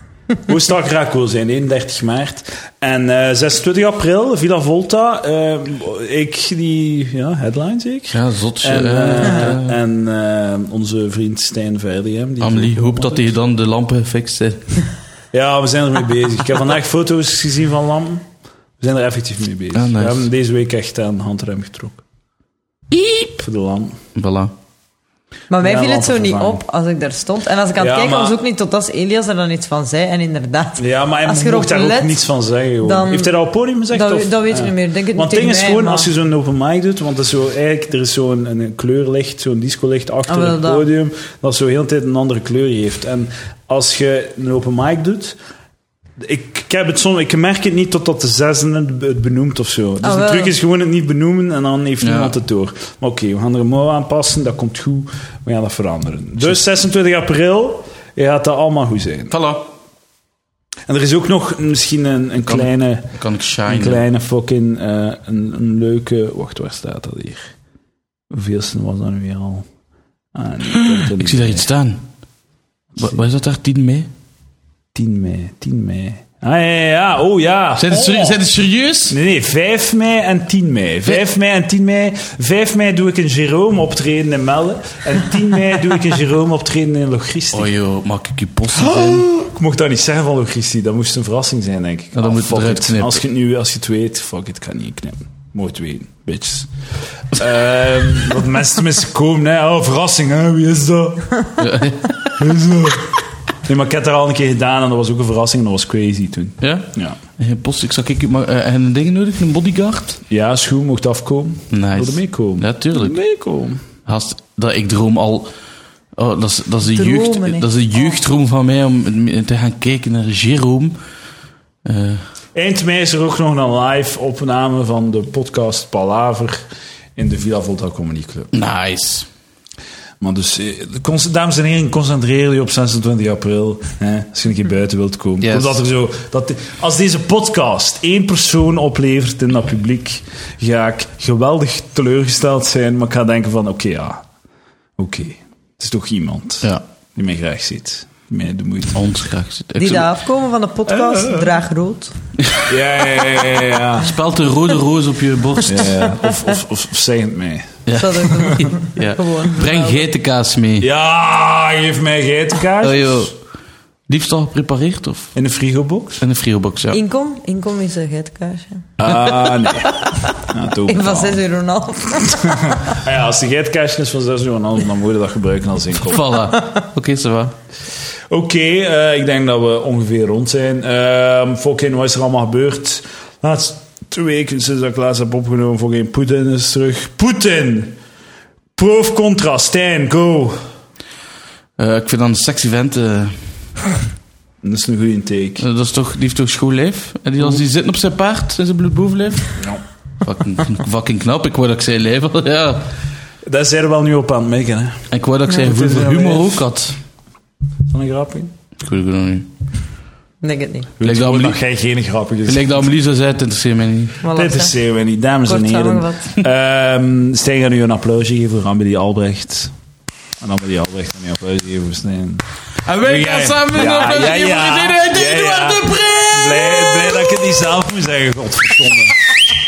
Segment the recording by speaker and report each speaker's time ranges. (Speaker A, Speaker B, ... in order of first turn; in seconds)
Speaker A: 0.4-13.3, 15.3-18.2, 18.8-22.0, 23.4-24.0, 25.6-26.6, 27.8-28.4, 30.8-45.4, 46.2-59.3, 60.9-63.1, 63.6-67.5, 68.3-69.7, 70.3-71.7, 74.9-78.4, 79.1-87.7, 88.7-96.7, 97.3-101.5, 102.3-107.2, 110.3-113.8, 122.5-128.5, 130.2-144.2, 145.0-149.1, 150.9-151.5, 152.7-154.1, 155.6-158.7, 160.8-163.3, 165.3-166.2, 169.0-171.4, 172.3-176.3, 178.3-187.9, 188.7-190.6, 194.6-195.7, 199.6-199.8, 203.4-206.6, 207.9-208.5, 211.0-212.8, 214.3-219.7, 220.4-222.4, 223.0-229.2
Speaker B: 8.1-9.8, 12.4-14.8, 19.7-20.3, 22.9-23.4, 24.1-24.5, 52.0-52.3, 59.3-59.7, 62.5-64.0, 70.7-72.0, 73.0-74.1, 77.8-79.2, 87.5-89.3, 92.2-93.2, 101.6-102.4, 106.6-110.2, 111.7-113.2, 114.0-115.5, 116.1-121.0, 121.8-122.2, 128.5-129.3, 135.4-135.8, 148.9-150.1, 152.4-152.6, 154.0-156.1, 157.8-160.8, 162.8-163.3, 164.1-165.3, 166.2-167.0, 169.1-169.3, 176.0-177.5, 191.8-193.4, 195.6-199.6, 200.2-202.8, 205.1-207.0, 208.8-209.5, 211.0-211.6, 212.4-214.2, 222.8-227.4
Speaker C: 25.5-32.2, 32.8-33.3, 33.9-36.1, 40.3-40.9, 50.0-50.5, 116.9-117.7, 149.8-152.1, 157.9-160.1, 166.9-168.9, 169.9-170.3, 170.9-172.8, 210.4-210.9, 214.2-214.7, 215.5-216.4